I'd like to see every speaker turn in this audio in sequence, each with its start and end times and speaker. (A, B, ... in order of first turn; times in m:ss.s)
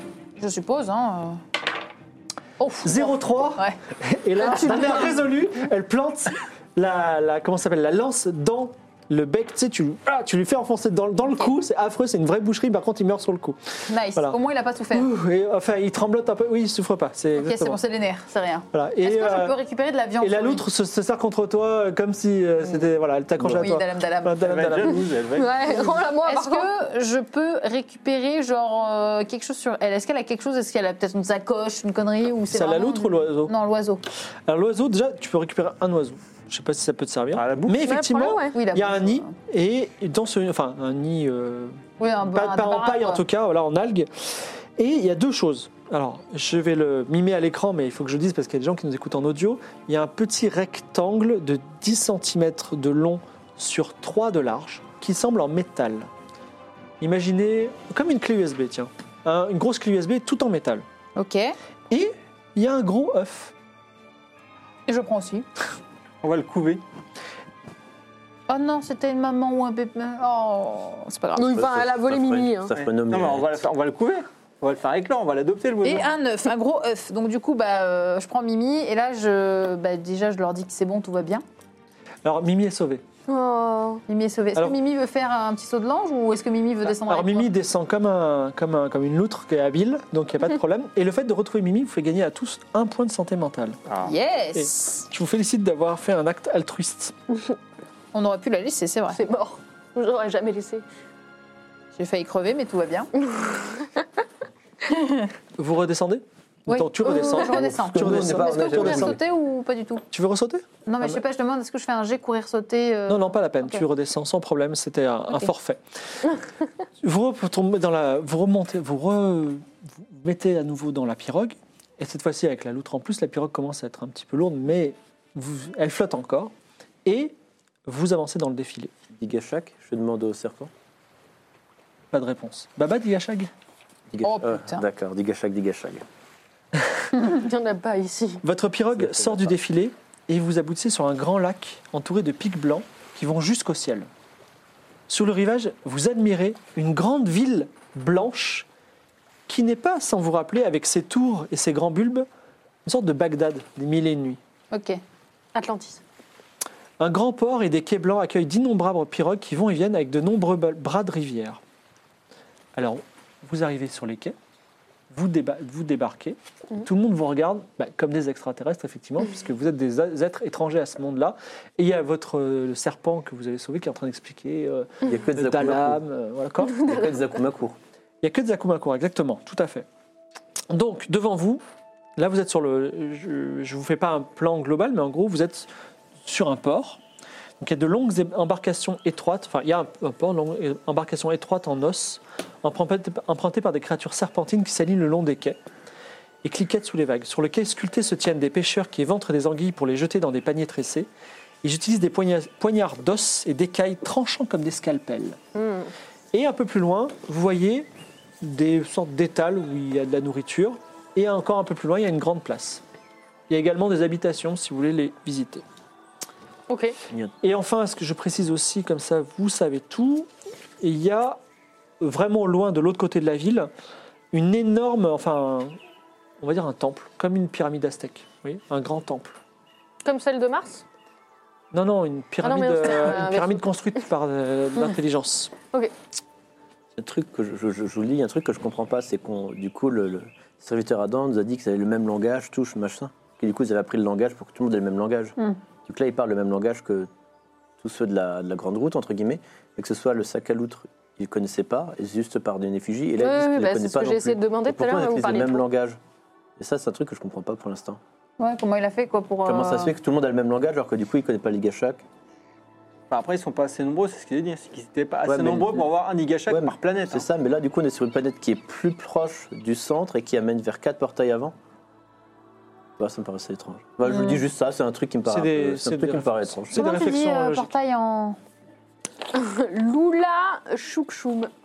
0:00.4-0:01.4 A
0:02.6-0:03.8 A
0:02.8-0:13.6 B
0:04.4-0:05.1 A
0:13.9-0:15.1 A
0:14.9-0:17.8 B
0:17.4-0:20.6 A
0:18.7-0:19.6 B
0:20.2-0:25.0 B
0:23.4-0:24.4 A
0:24.4-0:25.6 C
0:25.4-0:26.7 D
0:25.7-0:34.0 A
0:32.5-0:33.5 B
0:34.4-0:56.1 B
0:37.4-0:37.8 C
0:37.8-0:38.6 D
0:38.5-0:39.3 A
0:42.0-0:43.2 A
0:57.0-1:00.8 B
1:01.2-1:01.6 A
1:01.9-1:03.5 B
1:04.9-1:05.4 A
1:06.2-1:06.8 C
1:08.5-1:11.6 A
1:11.4-1:12.7 D
1:11.5-1:13.6 E
1:12.7-1:16.1 C
1:15.8-1:21.4 A
1:22.2-1:23.0 B
1:23.3-1:24.0 D
1:24.1-1:27.5 A
1:26.9-1:33.8 B
1:33.9-1:34.1 C
1:34.0-1:35.0 A
1:34.6-1:37.2 B
1:38.1-1:39.2 A
1:39.1-1:40.8 D
1:42.0-1:43.1 A
1:43.2-1:44.0 D
1:44.9-1:45.3 A
1:45.6-1:49.2 B
1:46.7-1:50.0 A
1:47.4-1:49.2 E
1:50.1-1:51.2 B
1:50.9-1:53.8 A
1:53.1-1:55.8 B
1:57.0-2:06.5 B
2:07.0-2:07.4 B
2:07.9-2:08.9 B
2:09.1-2:10.7 E
2:12.1-2:13.5 B
2:14.1-2:16.0 E
2:14.2-2:14.8 A
2:17.2-2:18.4 D
2:18.4-2:24.1 B
2:19.0-2:19.5 E
2:25.1-2:28.7 B
2:29.5-2:32.3 B
2:32.8-2:34.4 B
2:34.7-2:35.0 A
2:35.6-2:36.0 D
2:37.0-2:41.6 B
2:42.8-2:44.4 B
2:45.1-2:56.9 B
2:55.0-2:56.0 E
2:56.7-2:57.8 E
2:58.2-2:59.9 B
3:00.7-3:01.6 B
3:02.2-3:05.7 B
3:06.2-3:07.0 B
3:07.6-3:15.6 B
3:16.4-3:21.1 B
3:21.6-3:25.4 B
3:25.6-3:25.9 D
3:26.3-3:27.9 B
3:28.4-3:32.8 B
3:33.5-3:35.6 B
3:36.7-3:37.0 D
3:37.4-3:40.3 B
3:40.8-3:41.4 B
3:42.0-3:43.7 B
3:44.3-3:45.8 B
3:46.4-3:49.4 B
3:50.0-3:50.8 D
3:51.7-3:55.5 B
3:52.4-3:53.6 D
3:57.0-4:05.4 E
4:05.9-4:07.1 E
4:07.8-4:16.0 E
4:13.2-4:15.6 D
4:16.6-4:18.0 E
4:18.4-4:19.9 A
4:19.4-4:22.0 E
4:23.1-4:27.2 C
4:25.2-4:25.9 E
4:26.5-4:31.6 E
4:33.0-4:36.9 E
4:35.3-4:37.7 B
4:36.7-4:38.4 A
4:39.3-4:41.5 D